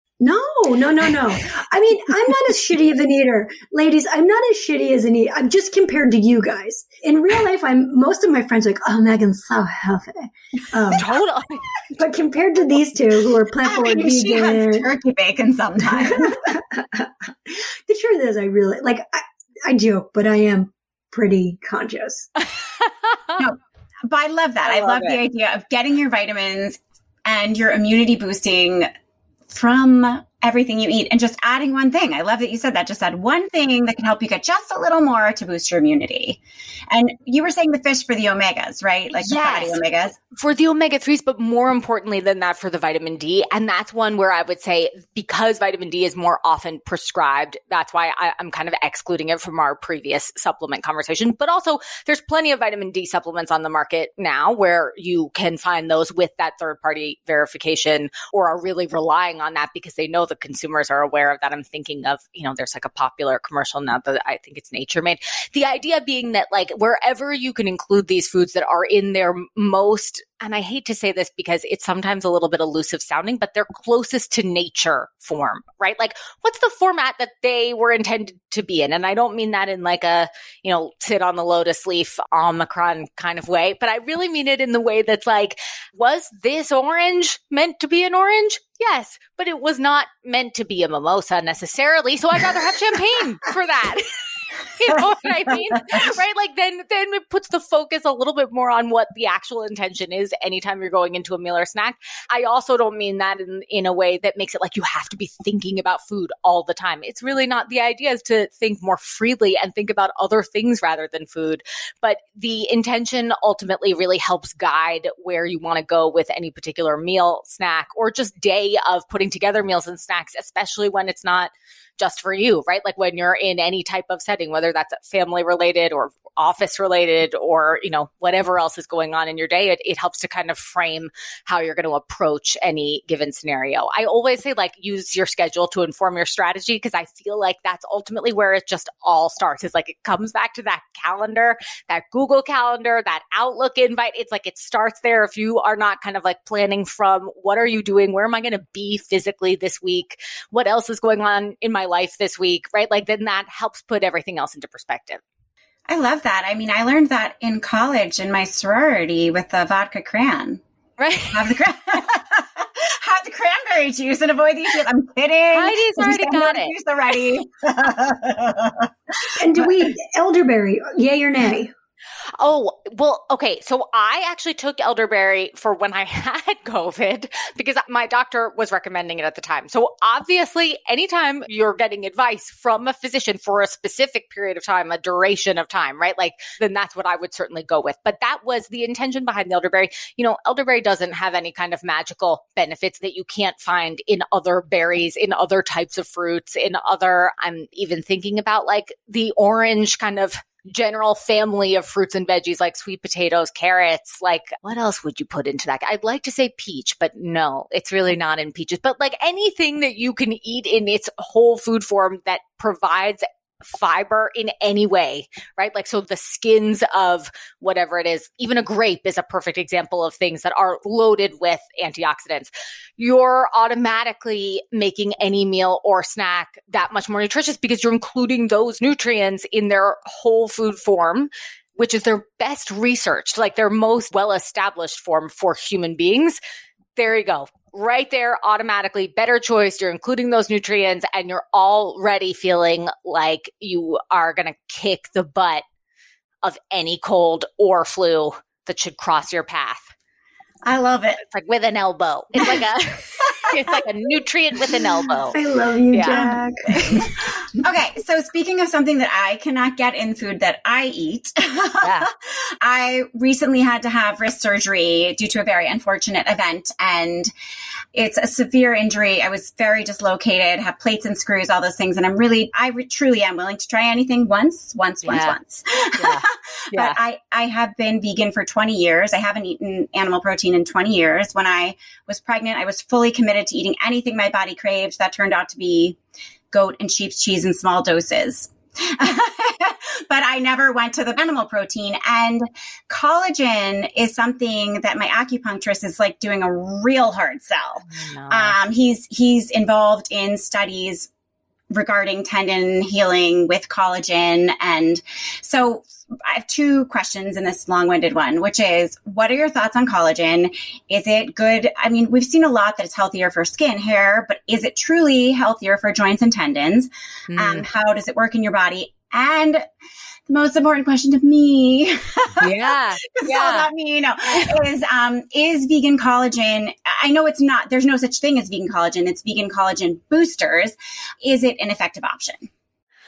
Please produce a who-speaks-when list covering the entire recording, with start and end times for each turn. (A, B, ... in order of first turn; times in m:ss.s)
0:00.2-0:11.1 A
0:10.9-0:11.8 B
0:12.0-0:14.8 A
0:13.6-0:16.5 C
0:15.9-0:22.3 A
0:22.4-0:23.5 B
0:24.1-0:28.9 C
0:24.6-0:25.2 B
0:29.5-0:40.2 C
0:39.1-0:39.8 B
0:40.3-2:35.2 B
2:35.9-2:40.6 C
2:41.0-2:41.5 B
2:41.3-2:48.9 C
2:45.5-2:46.7 B
2:49.4-2:51.7 A
2:52.4-3:56.4 B
3:56.9-4:05.6 B
4:06.4-4:09.9 B
4:10.6-4:11.2 C
4:11.2-4:15.4 B
4:15.3-4:17.1 A
4:15.9-4:17.1 B
4:16.1-4:27.3 C
4:21.8-4:22.1 B
4:27.9-4:46.0 C
4:35.0-4:35.4 B
4:36.0-4:37.0 B
4:46.5-5:01.1 C
4:57.9-4:58.6 B
5:01.7-5:19.6 C
5:17.3-5:17.6 B
5:20.3-5:32.5 C
5:22.4-5:23.7 B
5:24.3-5:24.6 B